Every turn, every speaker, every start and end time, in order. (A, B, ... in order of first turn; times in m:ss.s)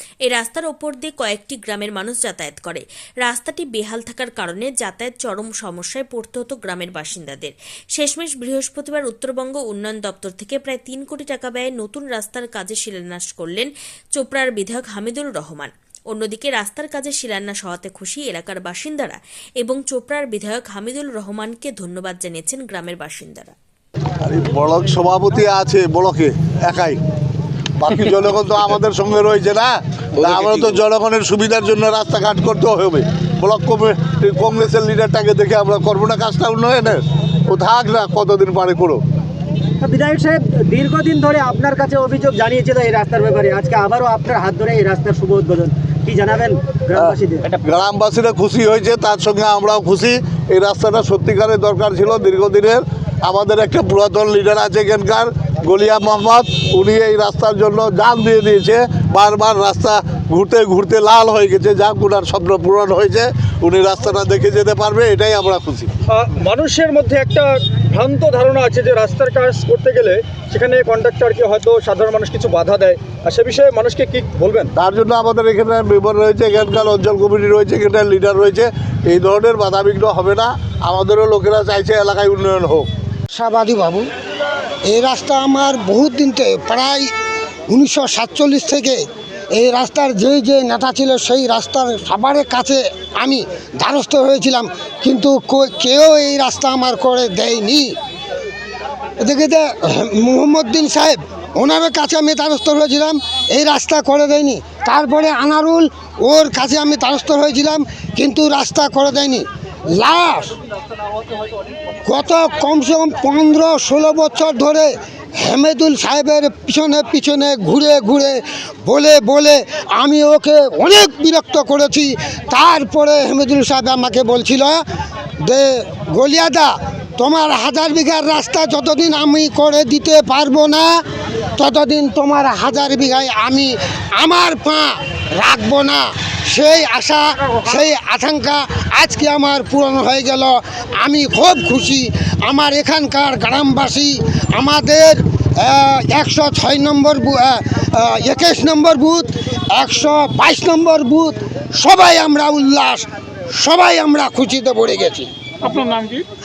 0:00.3-0:23.5 A
0:24.2-0:27.0 B
0:27.8-0:39.0 B
0:39.8-0:47.4 C
0:46.9-1:05.9 B
1:06.1-1:14.7 D
1:14.8-1:22.9 B
1:23.3-1:24.1 E
1:24.9-1:27.1 E
1:27.7-1:29.0 E
1:29.5-1:37.9 E
1:39.2-1:50.6 E
1:52.1-2:04.8 E
2:05.4-2:10.9 E
2:11.6-2:35.9 E